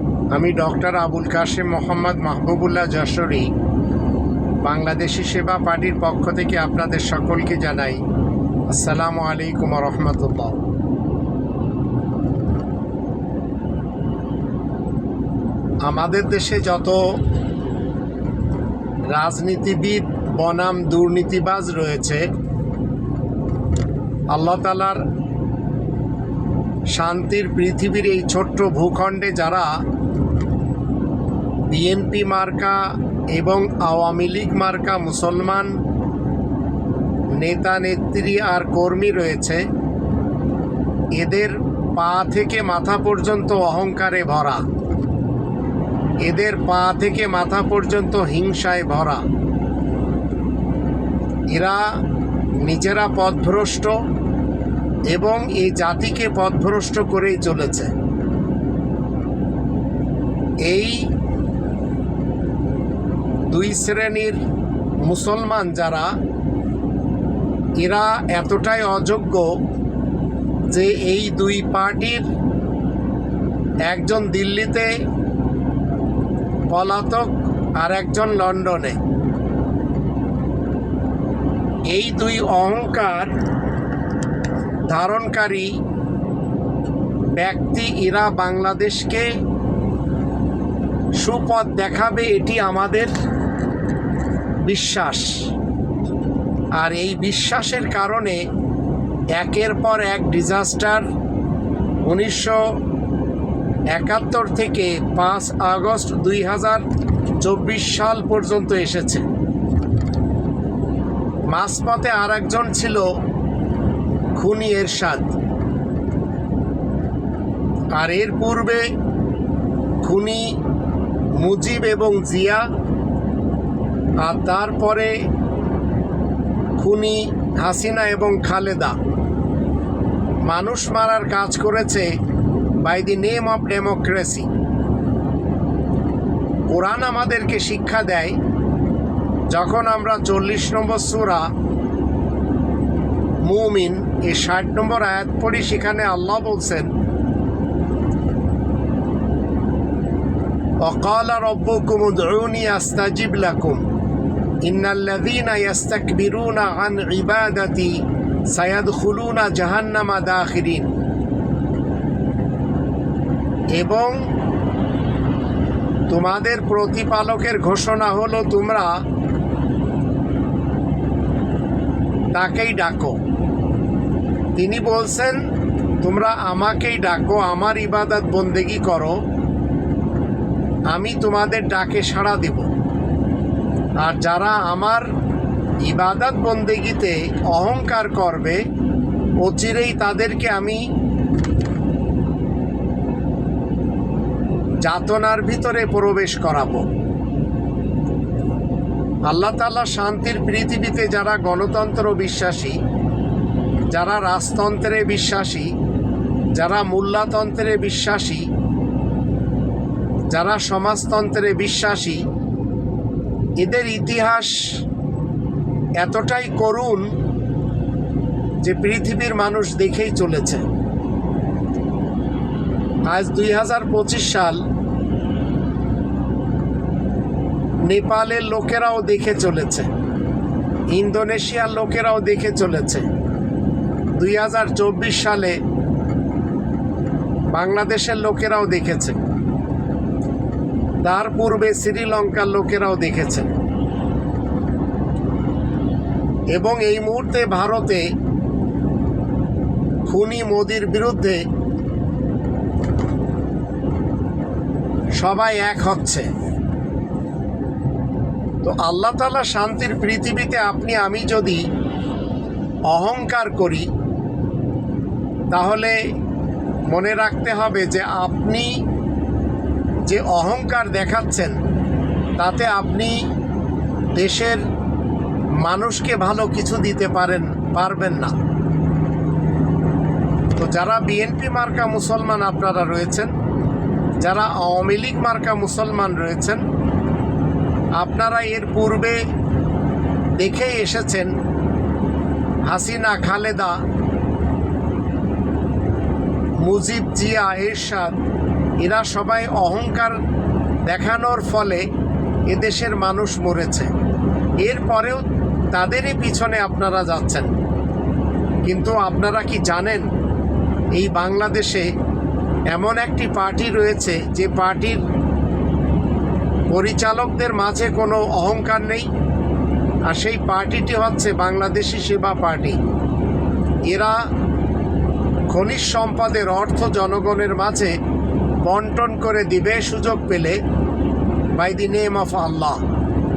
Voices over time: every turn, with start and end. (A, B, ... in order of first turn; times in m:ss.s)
0:00.3-0:03.5 A
0:04.6-0:08.0 A
0:08.7-0:10.6 A
0:15.8-0:17.0 A
0:19.1-0:22.3 A
0:24.3-0:25.0 A
0:26.9-0:29.7 A
0:31.7-0:35.7 A
0:37.4-0:39.6 A
0:41.2-0:44.6 A
0:46.2-0:49.2 A
0:51.5-0:51.9 A
0:52.6-0:54.0 A
0:55.1-0:57.9 A
1:00.6-1:01.1 A
1:03.5-1:04.4 A
1:05.0-1:06.1 A
1:07.8-1:09.6 A
1:10.7-1:12.3 A
1:13.8-1:14.9 A
1:16.7-1:19.0 A
1:21.9-1:23.3 A
1:24.9-1:25.7 A
1:27.4-1:29.3 A
1:31.2-1:33.2 A
1:34.6-1:35.5 A
1:36.8-1:38.4 A
1:39.4-1:41.1 A
1:42.0-1:42.7 A
1:43.9-1:46.8 A
1:47.4-1:49.3 A
1:51.5-1:53.1 A
1:54.4-1:55.4 A
1:58.0-1:58.8 A
2:00.0-2:00.5 A
2:01.4-2:02.6 A
2:04.2-2:05.2 A
2:06.8-2:09.0 A
2:10.5-2:12.1 A
2:12.8-2:14.5 A
2:16.7-2:18.4 A
2:19.5-2:21.5 A
2:23.4-2:26.9 A
2:30.8-2:33.8 A
2:34.6-2:40.9 A
2:43.8-2:44.2 A
2:46.1-2:48.9 A
2:52.3-2:53.2 A
2:54.6-2:55.4 A
2:56.0-2:59.2 A
3:00.9-3:02.7 A
3:04.0-3:05.1 A
3:05.8-3:08.6 A
3:09.4-3:10.8 A
3:14.8-3:16.9 A
3:19.3-3:22.8 A
3:23.9-3:25.7 A
3:26.6-3:28.5 A
3:30.3-3:32.3 A
3:33.6-3:34.8 A
3:36.0-3:37.1 A
3:38.6-3:40.6 A
3:43.1-3:44.6 A
3:47.9-3:49.9 A
3:50.9-3:53.1 A
3:54.2-3:55.6 A
3:57.5-3:59.2 A
4:01.0-4:03.5 A
4:06.5-4:08.1 A
4:10.1-4:11.4 A
4:15.2-4:16.3 A
4:18.6-4:21.6 A
4:22.9-4:23.9 A
4:25.5-4:26.0 A
4:26.9-4:28.8 A
4:30.1-4:31.6 A
4:32.4-4:33.2 A
4:34.2-4:34.6 A
4:35.6-4:38.4 A
4:40.6-4:43.3 A
4:44.2-4:46.6 A
4:48.0-4:49.2 A
4:50.4-4:51.3 A
4:52.7-4:53.8 A
4:56.6-4:58.2 A
4:58.8-5:00.2 A
5:00.9-5:01.8 A
5:02.5-5:03.9 A
5:04.6-5:07.5 A
5:08.6-5:10.1 A
5:11.0-5:11.9 A
5:12.7-5:15.0 A
5:16.7-5:19.1 A
5:20.1-5:22.8 A
5:23.9-5:24.2 A
5:25.5-5:28.0 A
5:28.6-5:30.6 A
5:31.6-5:32.8 A